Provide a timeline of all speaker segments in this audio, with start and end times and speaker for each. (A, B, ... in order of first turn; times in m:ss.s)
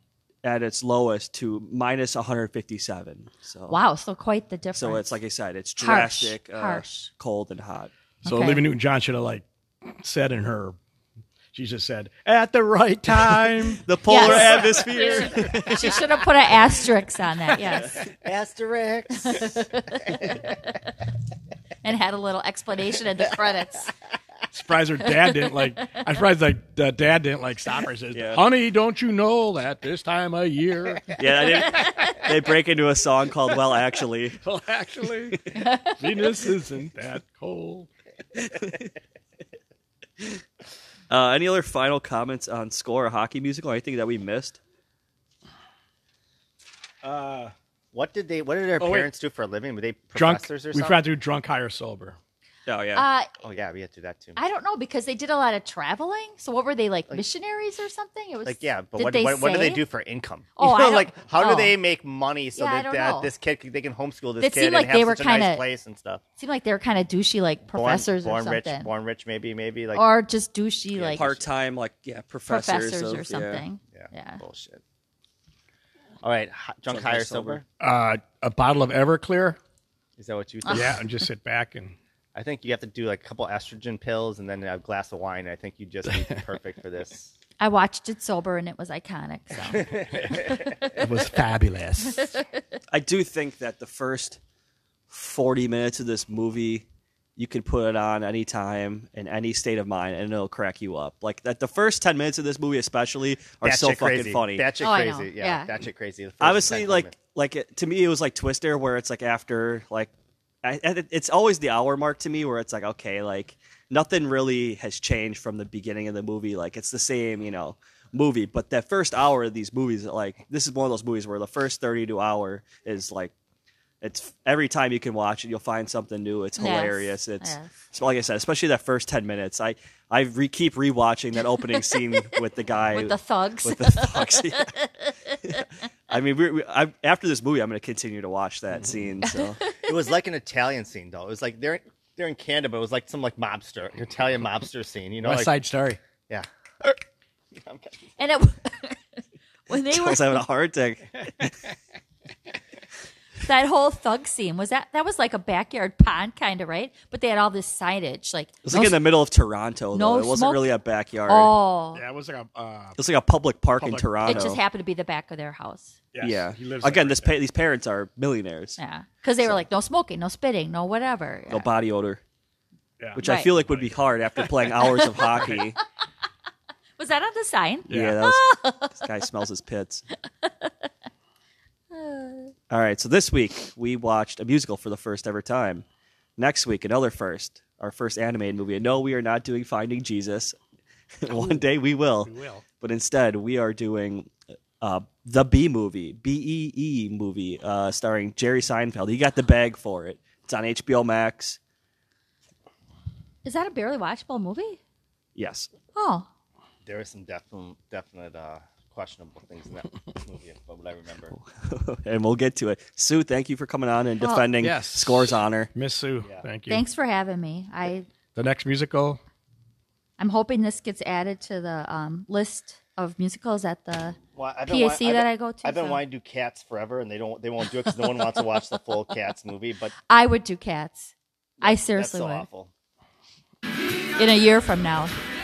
0:00.4-0:03.8 A
0:03.7-0:05.1 B
0:04.7-0:07.9 A
0:05.8-0:07.1 B
0:08.2-0:08.6 B
0:08.2-0:10.8 C
0:11.5-0:14.3 C
0:13.2-0:16.0 A
0:14.0-0:18.0 B
0:18.0-0:20.4 D
0:19.2-0:20.7 B
0:21.8-0:23.9 B
0:24.5-0:32.2 C
0:28.1-0:28.4 A
0:31.1-0:34.4 A
0:34.4-0:37.9 C
0:35.6-0:36.0 B
0:38.4-0:38.9 A
0:41.1-0:44.6 A
0:47.0-0:47.5 C
0:47.9-0:51.0 D
0:48.8-0:49.1 C
0:50.1-0:52.2 C
0:52.6-0:53.0 A
0:53.0-0:53.3 B
0:53.4-0:54.4 D
0:54.4-0:59.8 B
0:58.4-1:06.2 D
1:00.6-1:01.8 B
1:02.6-1:03.3 B
1:04.4-1:05.6 B
1:06.4-1:08.9 B
1:07.7-1:10.0 D
1:09.9-1:11.2 B
1:10.9-1:11.5 D
1:11.1-1:13.6 A
1:12.5-1:14.4 B
1:13.9-1:14.8 D
1:16.2-1:17.6 D
1:16.9-1:17.6 A
1:17.8-1:19.6 C
1:20.2-1:21.0 D
1:20.7-1:22.0 C
1:22.3-1:27.3 D
1:26.1-1:26.4 C
1:27.6-1:31.0 B
1:29.7-1:30.6 D
1:30.9-1:32.3 C
1:32.9-1:34.4 A
1:35.1-1:36.9 A
1:37.4-1:44.7 A
1:43.6-1:47.1 D
1:44.8-1:45.7 B
1:46.4-1:50.1 A
1:50.6-2:03.3 A
2:04.0-2:14.7 A
2:06.6-2:07.7 B
2:12.9-2:15.6 B
2:15.4-2:19.6 A
2:19.2-2:19.9 B
2:19.8-2:25.5 D
2:25.2-2:26.0 C
2:27.6-2:27.9 D
2:28.2-2:29.0 B
2:29.7-2:30.4 B
2:29.7-2:31.6 A
2:33.4-2:39.0 B
2:38.6-2:41.5 A
2:39.9-2:40.7 B
2:41.3-2:42.0 B
2:41.9-2:43.0 C
2:43.0-2:44.6 A
2:43.8-2:44.6 C
2:44.3-2:46.0 B
2:46.1-2:47.3 C
2:46.2-2:48.8 A
2:48.8-2:51.7 B
2:51.5-2:52.2 A
2:53.0-2:54.0 C
2:53.1-2:55.8 A
2:53.2-2:53.5 B
2:55.3-2:55.6 C
2:57.0-2:59.0 B
2:57.9-2:58.2 C
2:57.9-3:00.0 A
3:00.4-3:00.7 B
3:01.9-3:02.5 B
3:02.7-3:05.8 A
3:06.4-3:10.6 A
3:11.2-3:21.6 A
3:11.3-3:11.6 C
3:12.2-3:12.6 C
3:23.4-3:24.8 B
3:25.3-3:25.7 A
3:26.0-3:26.3 B
3:26.8-3:31.3 D
3:31.4-3:35.7 A
3:34.2-3:34.4 B
3:34.6-3:36.8 C
3:36.7-3:38.1 B
3:38.3-3:39.2 C
3:40.2-3:46.0 B
3:44.4-3:49.9 D
3:50.1-3:52.4 B
3:51.6-3:52.7 D
3:54.2-3:55.2 B